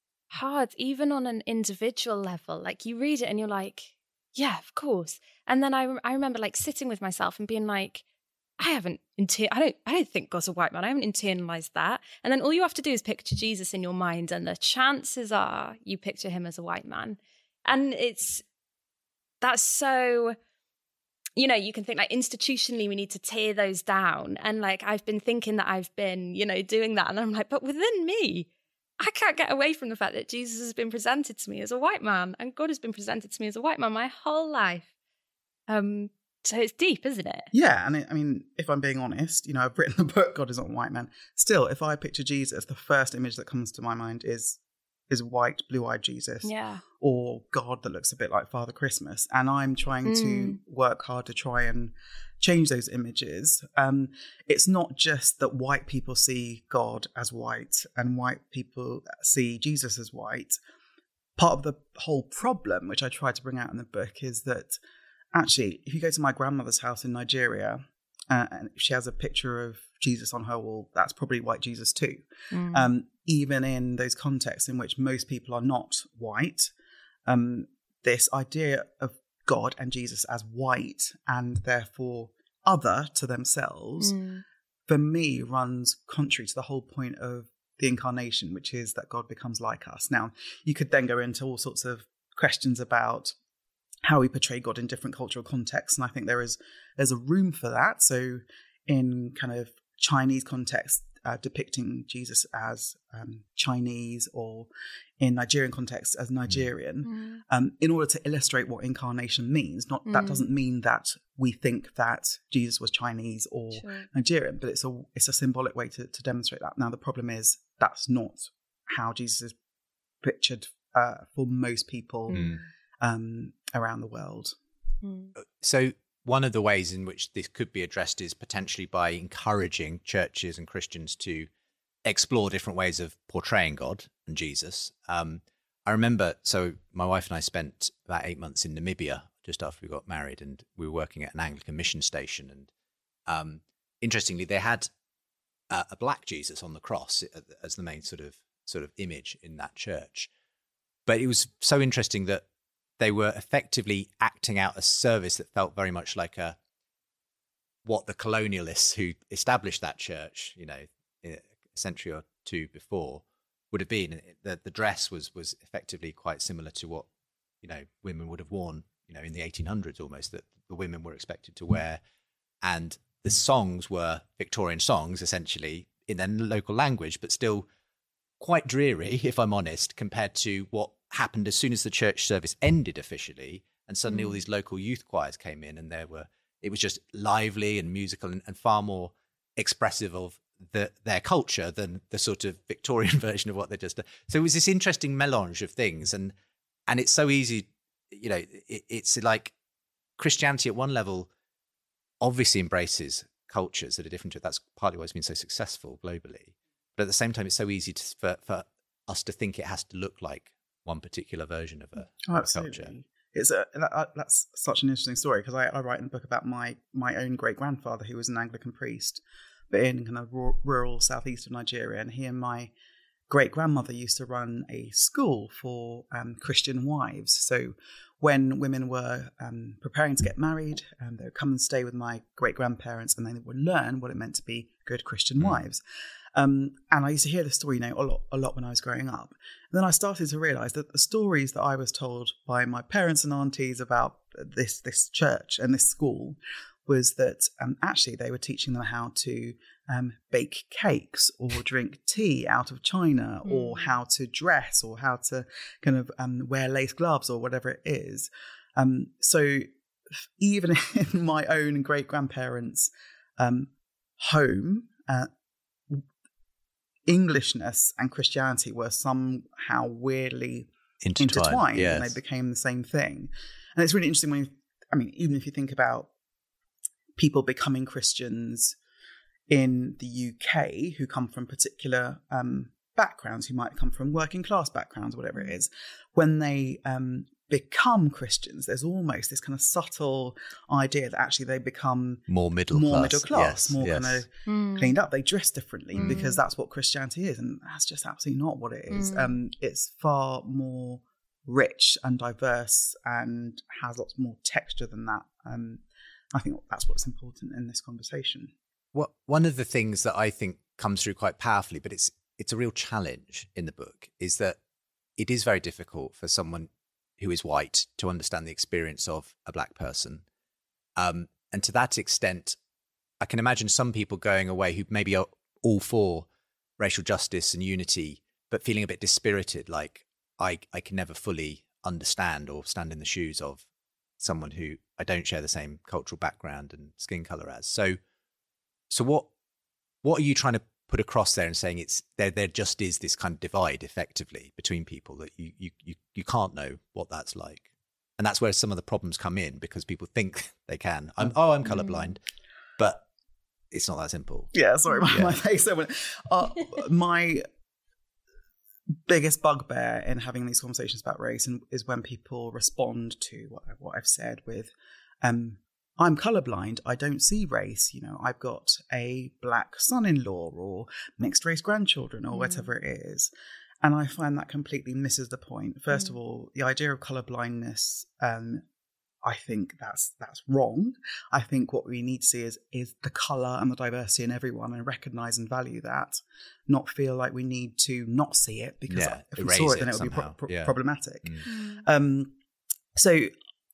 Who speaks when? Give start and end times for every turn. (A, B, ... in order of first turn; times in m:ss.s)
0:00.3-0:08.0 A
0:08.6-0:18.4 A
0:19.4-0:20.4 A
0:21.4-0:28.5 A
0:29.0-0:34.9 A
0:35.7-0:37.5 A
0:37.5-0:44.6 B
0:45.1-1:00.6 B
0:46.4-0:46.8 A
0:50.0-0:50.6 A
1:01.4-1:04.8 B
1:05.3-1:16.7 B
1:12.5-1:12.9 A
1:17.3-1:24.2 B
1:24.0-1:24.4 A
1:24.9-1:33.3 B
1:34.0-1:44.7 B
1:45.2-1:59.6 B
1:47.0-1:47.4 A
1:50.1-1:50.4 A
1:53.8-1:54.1 A
2:00.2-2:02.4 B
2:02.3-2:02.6 A
2:02.3-2:02.6 C
2:03.0-2:04.6 B
2:05.0-2:05.3 A
2:05.4-2:11.5 C
2:12.1-2:22.7 C
2:23.3-2:24.9 C
2:25.7-2:30.3 C
2:31.1-2:32.4 C
2:33.0-2:36.6 C
2:37.8-2:47.1 C
2:47.6-2:52.0 C
2:52.6-2:57.7 C
2:58.4-3:16.4 C
3:04.1-3:04.4 A
3:16.9-3:19.5 C
3:20.2-3:21.3 C
3:22.2-3:32.9 C
3:32.3-3:42.7 B
3:43.3-3:55.8 B
3:56.4-4:19.7 B
4:13.4-4:13.9 A
4:20.4-4:25.3 B
4:27.1-4:36.1 B
4:31.0-4:32.2 C
4:37.2-4:38.8 B
4:39.5-5:05.8 B
4:52.3-4:54.2 C
4:54.5-4:55.0 A
4:56.0-4:56.2 C
4:56.0-4:56.4 A
4:58.9-4:59.4 A
5:06.3-5:08.5 B
5:08.9-5:14.6 C
5:15.2-5:20.2 C
5:21.0-5:22.6 C
5:23.2-5:26.3 C
5:26.8-5:33.6 C
5:34.2-5:38.0 C
5:38.9-5:39.3 C
5:40.0-5:47.7 C
5:48.2-5:52.2 C
5:51.8-5:52.0 A
5:52.8-5:53.0 C
5:53.7-5:54.5 C
5:54.5-5:57.5 B
5:55.0-5:55.4 C
5:59.1-6:04.7 B
6:05.2-6:13.3 B
6:12.3-6:12.7 A
6:13.8-6:18.6 B
6:19.2-6:32.3 B
6:28.9-6:31.5 C
6:31.5-6:31.8 A
6:33.0-6:33.3 B